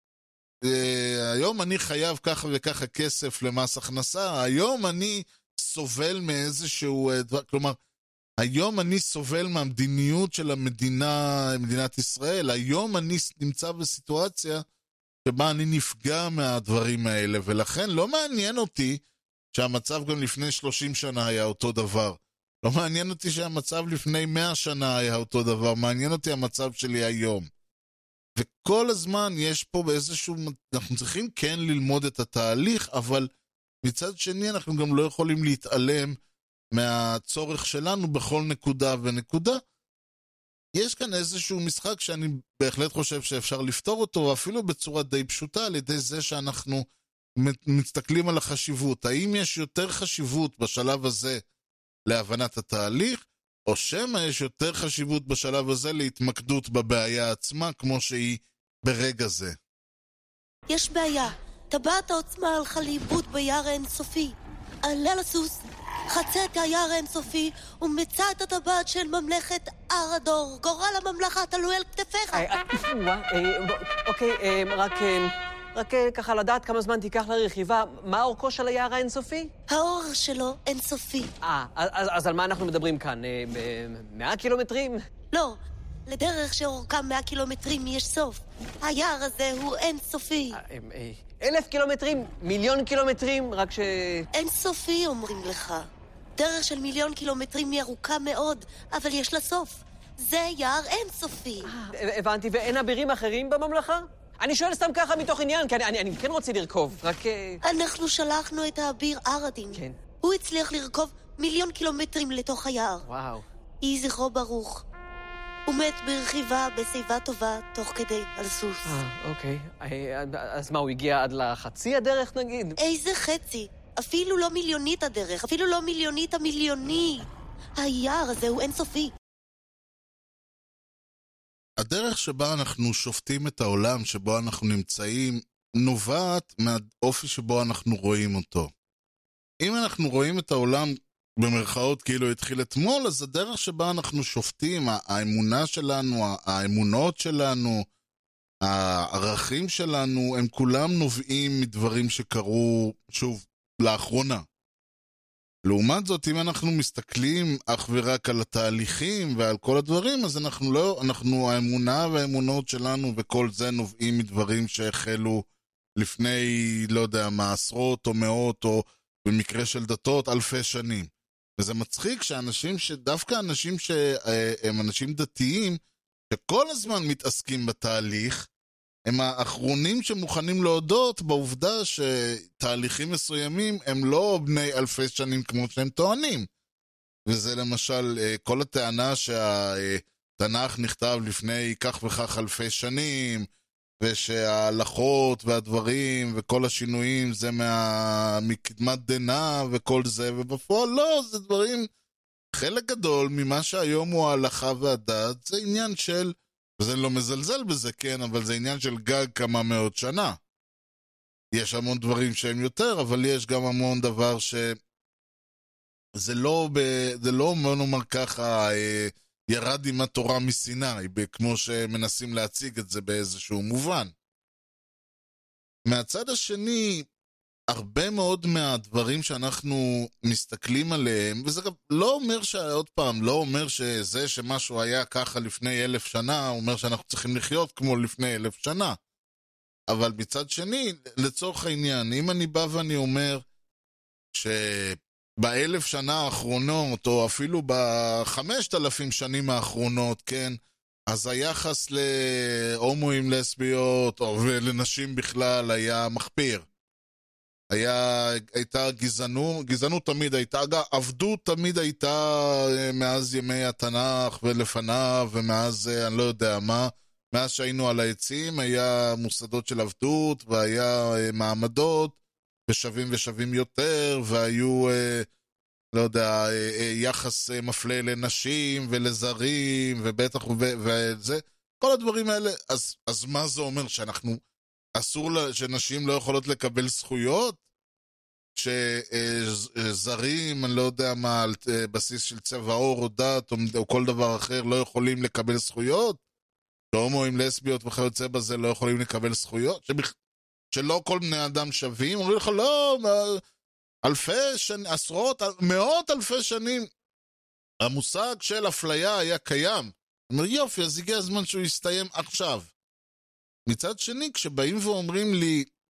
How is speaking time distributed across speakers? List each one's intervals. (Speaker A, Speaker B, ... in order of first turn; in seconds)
Speaker A: 0.6-7.8, 8.4-14.6, 15.2-19.0, 19.5-27.5, 28.4-33.3, 33.8-36.2, 36.7-39.6, 40.8-46.9, 47.4-51.4, 52.1-59.6, 131.8-138.7, 139.6-147.9, 148.6-154.4, 155.7-165.4, 166.0-175.8, 176.3-178.5, 179.1-186.5, 187.3-193.5, 194.0-201.9, 202.5-210.4, 211.5-214.8, 216.2-224.1, 225.9-227.1, 227.7-239.0, 239.9-243.4, 244.3-256.6, 257.7-272.2, 272.7-275.3, 275.9-284.4, 285.0-287.6, 288.6-296.2, 296.9-300.1, 300.7-303.4, 304.0-306.9, 307.8-312.7, 313.7-315.7
Speaker B: 60.7-64.3, 64.8-65.6, 66.1-72.5, 79.7-81.3, 85.3-90.6, 94.3-101.7, 107.6-113.0, 113.8-114.8, 115.7-118.9, 122.8-127.3, 127.8-129.1
Speaker C: 72.3-79.5, 81.4-85.0, 90.5-94.3, 101.6-107.6, 109.7-110.0, 113.1-113.5, 118.9-122.8